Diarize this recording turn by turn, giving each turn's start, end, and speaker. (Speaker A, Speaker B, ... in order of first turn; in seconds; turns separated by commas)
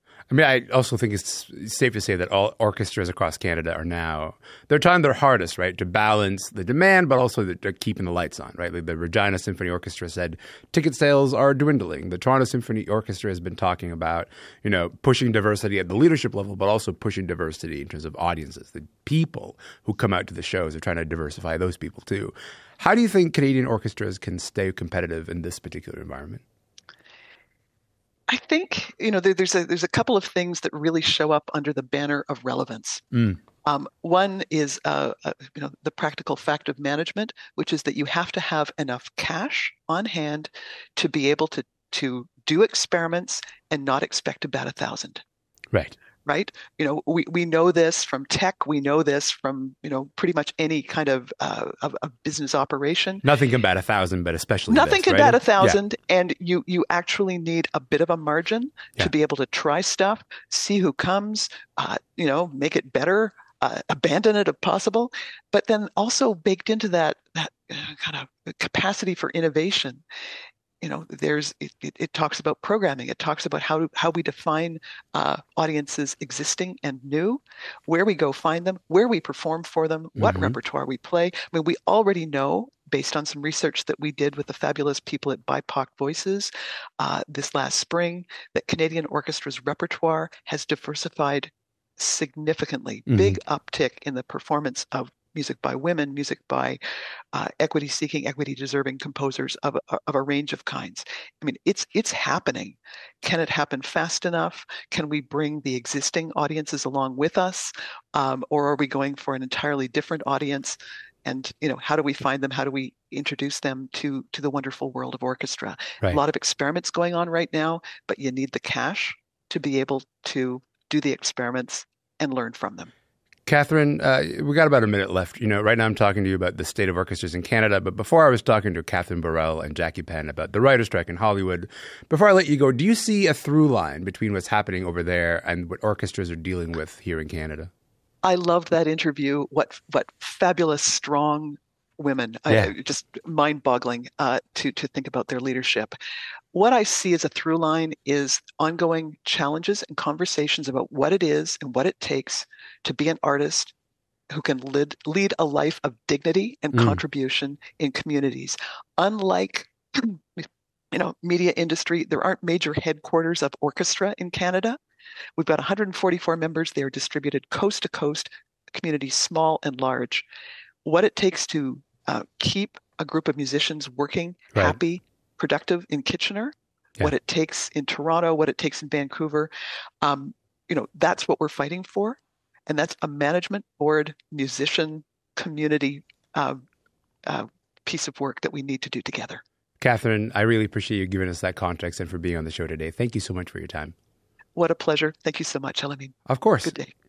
Speaker A: 0.3-26.4, Speaker B: 28.3-33.0, Speaker A: 33.1-33.4, Speaker B: 33.6-45.2, Speaker B: 46.2-53.2, Speaker A: 53.2-55.8, Speaker B: 54.7-70.0, Speaker B: 70.8-96.8, Speaker A: 80.2-80.5, Speaker A: 93.1-93.4, Speaker B: 97.3-122.9, Speaker A: 123.5-137.7, Speaker B: 138.2-145.9, Speaker B: 146.5-153.7, Speaker B: 154.3-164.8, Speaker A: 156.7-157.0, Speaker B: 165.4-170.2, Speaker B: 170.8-179.5, Speaker B: 180.0-186.6, Speaker B: 187.2-189.4, Speaker A: 189.8-193.9, Speaker B: 194.5-196.9, Speaker A: 196.3-196.7